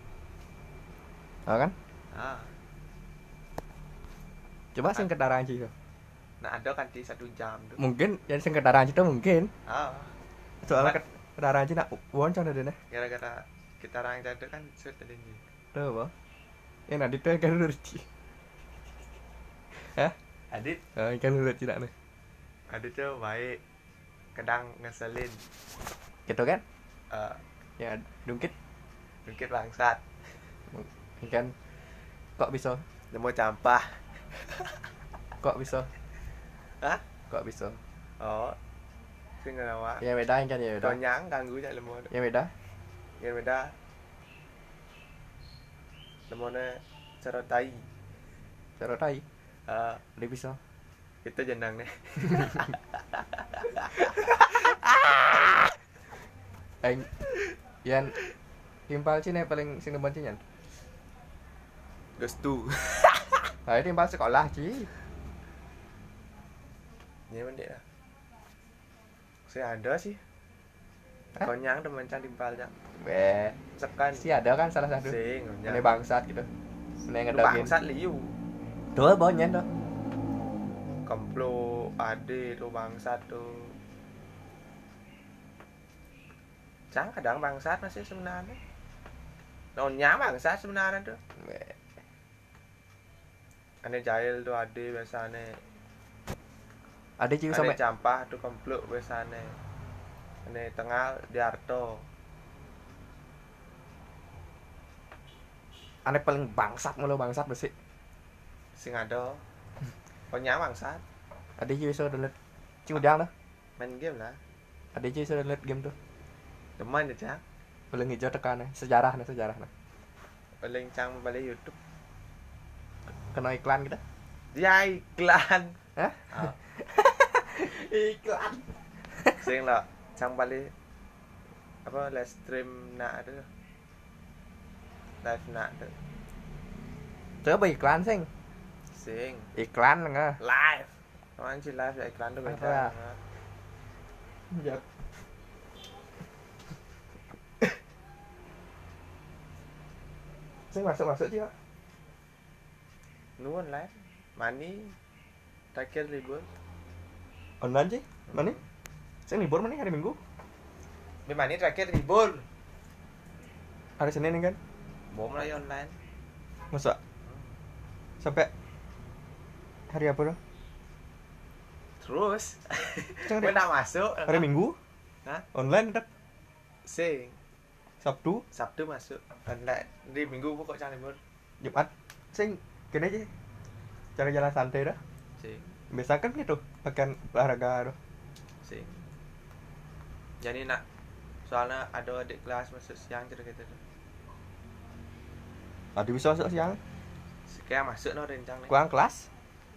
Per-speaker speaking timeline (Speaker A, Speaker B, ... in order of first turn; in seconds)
Speaker A: 1.5-1.8, 4.8-5.7, 7.8-9.5, 10.6-12.8, 15.7-16.1, 16.9-18.1, 19.8-20.1, 21.0-21.9, 26.3-26.6, 27.8-28.5, 30.7-31.5, 32.4-32.8, 35.4-35.9, 37.3-37.8, 40.0-41.0, 42.1-42.5, 48.8-49.2, 50.2-50.6, 56.8-57.1, 57.8-58.2, 58.9-60.4, 63.7-64.9, 73.0-73.6, 74.1-76.5, 77.1-77.7, 79.0-79.7, 91.4-91.8, 97.2-97.8, 106.1-107.7, 111.6-112.3, 112.9-113.3, 115.0-115.9, 117.9-119.7, 123.3-124.0, 126.0-128.6, 137.4-138.3, 139.6-140.4, 142.5-142.9, 144.5-144.8, 150.7-151.5, 157.6-158.6, 159.3-160.2, 164.0-164.6, 166.7-167.0, 168.2-168.5, 169.9-170.4, 173.3-173.6, 174.3-174.8, 175.5-176.1, 178.0-178.4, 181.6-183.3, 184.2-185.0, 185.9-188.0, 196.0-196.8, 198.7-199.3
Speaker B: 2.1-2.5, 6.4-7.8, 9.7-10.1, 10.7-11.0, 12.9-15.4, 20.5-20.8, 22.7-23.6, 24.4-25.4, 27.1-27.4, 29.3-30.0, 33.1-34.8, 38.2-38.6, 39.4-40.0, 40.8-42.1, 43.2-43.7, 46.3-47.9, 49.7-50.0, 51.2-55.2, 62.2-63.4, 67.3-67.8, 69.5-70.2, 71.4-72.7, 73.8-74.3, 75.0-75.9, 77.3-78.3, 81.0-83.8, 86.9-88.6, 89.8-91.2, 93.8-95.6, 97.5-99.6, 100.5-102.1, 108.8-109.4, 110.3-111.0, 113.8-114.4, 116.8-117.4, 120.6-121.8, 124.5-125.8, 126.3-126.6, 129.4-130.7, 131.8-133.5, 135.2-135.9, 138.9-139.5, 140.4-143.2, 153.4-154.9, 155.7-156.5, 158.3-158.6, 161.3-162.5, 165.1-166.0, 172.0-174.5, 176.8-177.4, 178.5-181.2, 185.4-185.7, 188.6-189.0, 190.4-190.8, 191.5-193.8, 197.5-198.8